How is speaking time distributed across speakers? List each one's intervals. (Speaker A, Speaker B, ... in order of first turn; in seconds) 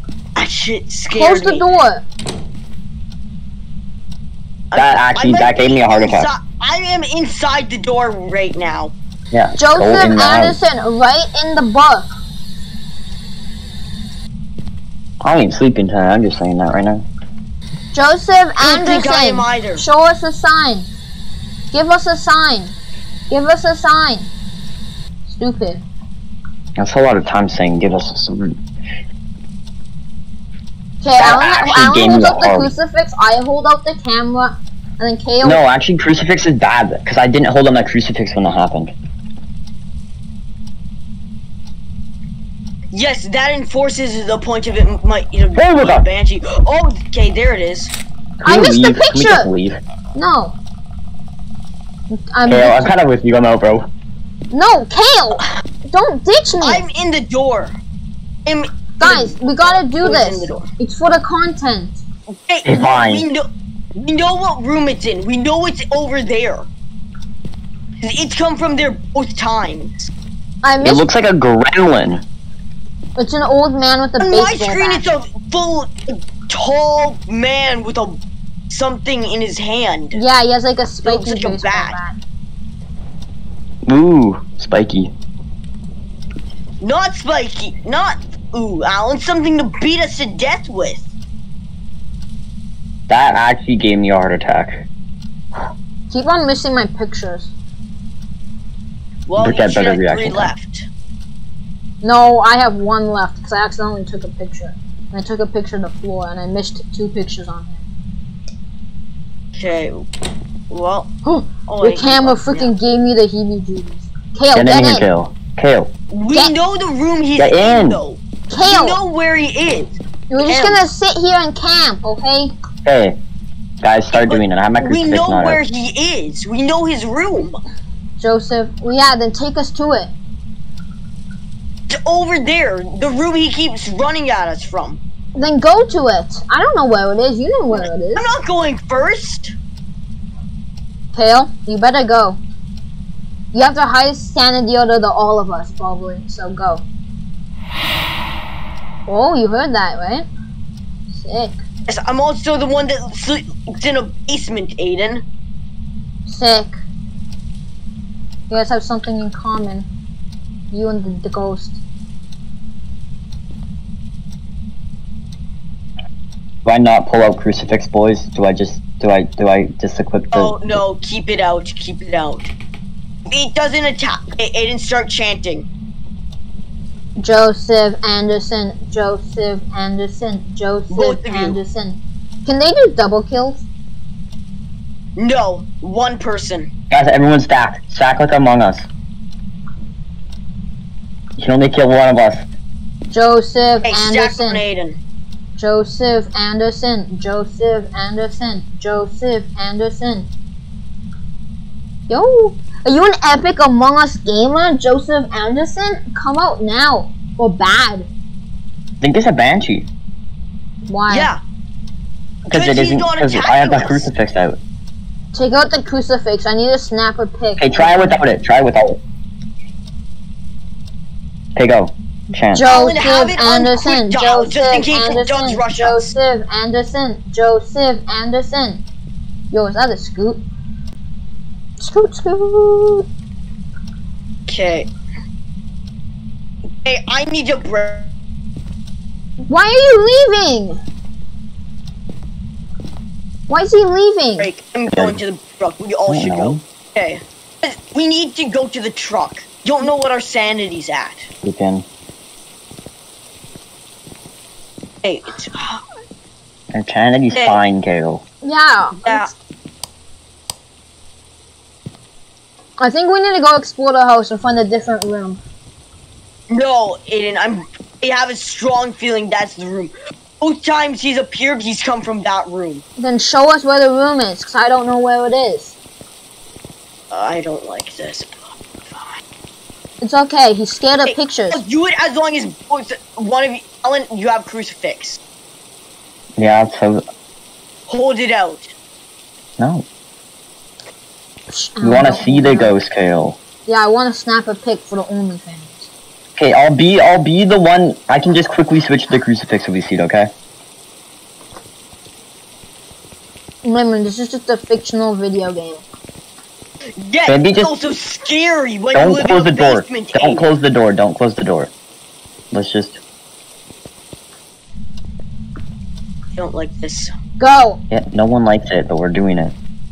Speaker A: 0.3-1.6, 4.7-8.9, 18.6-19.8, 42.9-47.9, 56.6-57.8, 58.5-60.7, 62.3-66.7, 68.0-70.1, 74.2-80.2, 81.0-82.0, 86.8-91.1, 99.3-100.9, 109.6-110.0, 110.7-111.1, 111.7-112.7, 116.1-120.8, 124.1-127.6, 131.9-135.0, 137.7-139.5, 151.9-155.2, 170.3-172.5, 173.3-175.7, 180.9-181.6, 185.2-186.7, 193.8-195.0, 211.1-211.4, 212.5-214.1, 222.6-226.1, 234.5-234.9, 236.8-238.1, 244.4-251.2, 255.0-255.8, 257.3-257.6, 259.0-259.3, 266.5-272.8, 277.1-279.2, 281.1-285.2, 287.9-288.7, 307.0-310.4, 316.4-317.1
Speaker B: 1.1-2.0, 9.6-12.1, 17.9-20.9, 21.7-22.7, 23.3-24.3, 25.2-25.8, 31.0-35.6, 48.4-49.5, 50.1-50.5, 52.1-52.9, 54.5-56.8, 59.0-62.0, 70.6-71.0, 73.2-75.0, 80.1-82.2, 96.1-97.5, 102.0-107.8, 111.2-115.1, 118.5-119.0, 120.3-122.5, 128.2-130.1, 135.3-138.2, 141.1-142.4, 143.5-146.8, 149.1-150.3, 151.1-151.6, 156.2-156.8, 158.5-159.9, 160.7-161.8, 177.2-183.6, 193.1-194.6, 195.6-200.3, 202.1-208.1, 210.9-211.3, 215.3-218.2, 222.5-228.8, 229.5-230.4, 231.8-233.1, 239.5-240.8, 243.5-244.5, 258.4-259.3, 262.8-265.4, 273.0-275.7, 280.0-281.6, 291.5-292.7, 293.6-295.9, 303.6-305.8, 317.4-317.8
Speaker C: 4.7-6.3, 9.3-10.6, 15.2-17.0, 26.8-28.6, 31.2-32.7, 35.4-38.9, 45.5-46.0, 48.4-49.8, 52.5-53.9, 62.7-63.3, 70.8-72.2, 83.8-85.1, 93.1-94.9, 99.4-100.5, 114.5-115.9, 117.4-118.0, 122.8-123.2, 123.8-125.6, 166.6-170.8, 186.9-188.9, 191.4-192.4, 209.0-209.9, 212.5-214.6, 217.6-219.0, 221.5-222.7, 244.9-245.2, 246.1-246.6, 251.4-251.8, 256.7-258.2, 286.4-287.0, 289.6-289.9, 291.8-293.4, 296.4-300.3, 307.3-307.7, 308.9-311.7, 312.5-313.0, 317.9-319.5